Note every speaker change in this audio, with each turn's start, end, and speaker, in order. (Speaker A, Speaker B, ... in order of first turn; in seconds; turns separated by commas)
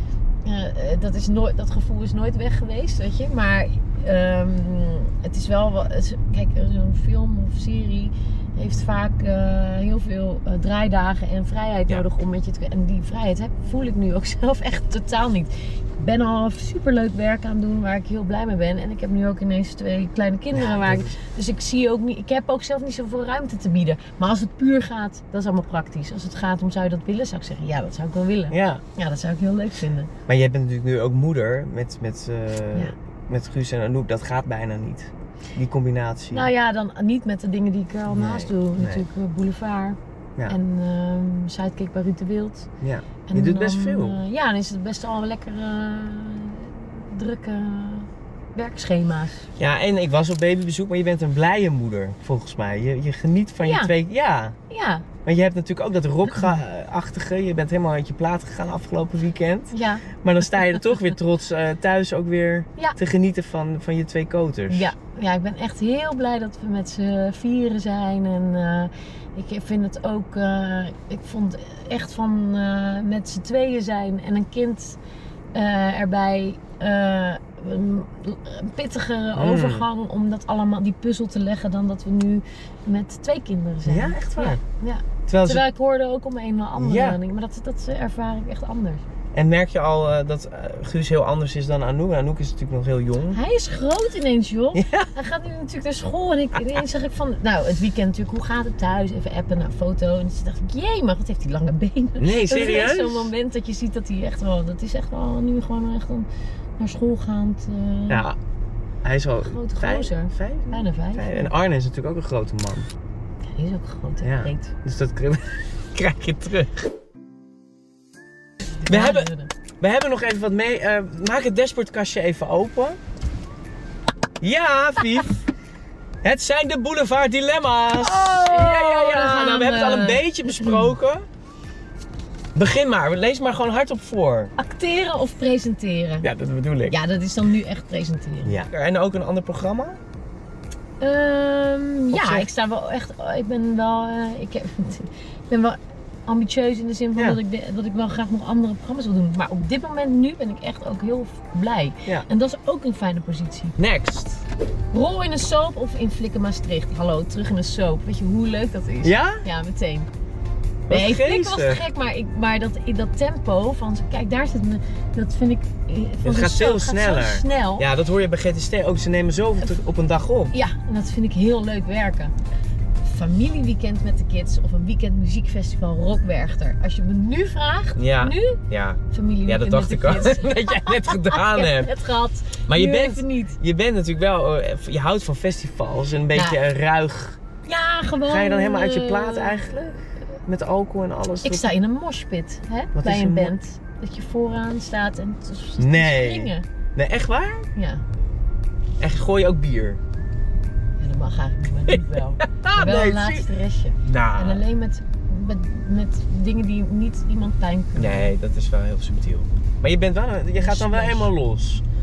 Speaker A: 0.4-30.1, Speaker B: 20.5-21.1, Speaker B: 28.5-28.8, Speaker B: 30.3-36.5, Speaker A: 36.3-42.7, Speaker B: 38.1-39.0, Speaker B: 42.8-44.2, Speaker A: 43.3-49.5, Speaker B: 49.6-54.5, Speaker A: 53.6-53.9, Speaker A: 54.7-55.0, Speaker B: 55.2-64.9, Speaker A: 59.7-60.1, Speaker A: 64.7-75.0, Speaker A: 75.5-89.0, Speaker B: 79.3-79.8, Speaker B: 83.8-84.6, Speaker B: 85.3-85.6, Speaker B: 86.8-87.2, Speaker B: 89.3-93.4, Speaker A: 93.3-108.2, Speaker B: 94.7-95.1, Speaker B: 102.2-103.3, Speaker B: 108.1-108.4, Speaker B: 109.0-112.9, Speaker A: 109.4-111.5, Speaker A: 113.4-114.7, Speaker B: 114.2-116.9, Speaker A: 118.8-119.5, Speaker B: 118.9-119.3, Speaker B: 119.8-123.0, Speaker B: 124.4-125.3, Speaker B: 126.2-131.2, Speaker A: 128.0-130.9, Speaker B: 132.5-134.5, Speaker A: 134.6-136.3, Speaker B: 136.2-136.9, Speaker A: 136.9-138.6, Speaker B: 138.4-140.0, Speaker A: 141.0-153.8, Speaker B: 142.1-142.5, Speaker B: 153.8-154.4, Speaker A: 154.9-160.1, Speaker B: 159.0-159.4, Speaker B: 160.8-161.8, Speaker A: 160.9-167.9, Speaker B: 166.2-170.5, Speaker A: 170.5-172.3, Speaker A: 173.0-183.6, Speaker B: 177.9-181.9, Speaker B: 182.7-187.4, Speaker A: 186.3-186.6, Speaker A: 187.6-189.9, Speaker B: 188.2-191.7, Speaker A: 191.4-196.6, Speaker B: 192.9-193.5, Speaker B: 195.8-197.7, Speaker A: 197.7-198.0, Speaker B: 199.0-200.0, Speaker A: 201.0-208.3, Speaker B: 201.9-203.4, Speaker B: 204.0-204.6, Speaker B: 207.9-211.8, Speaker A: 210.6-211.3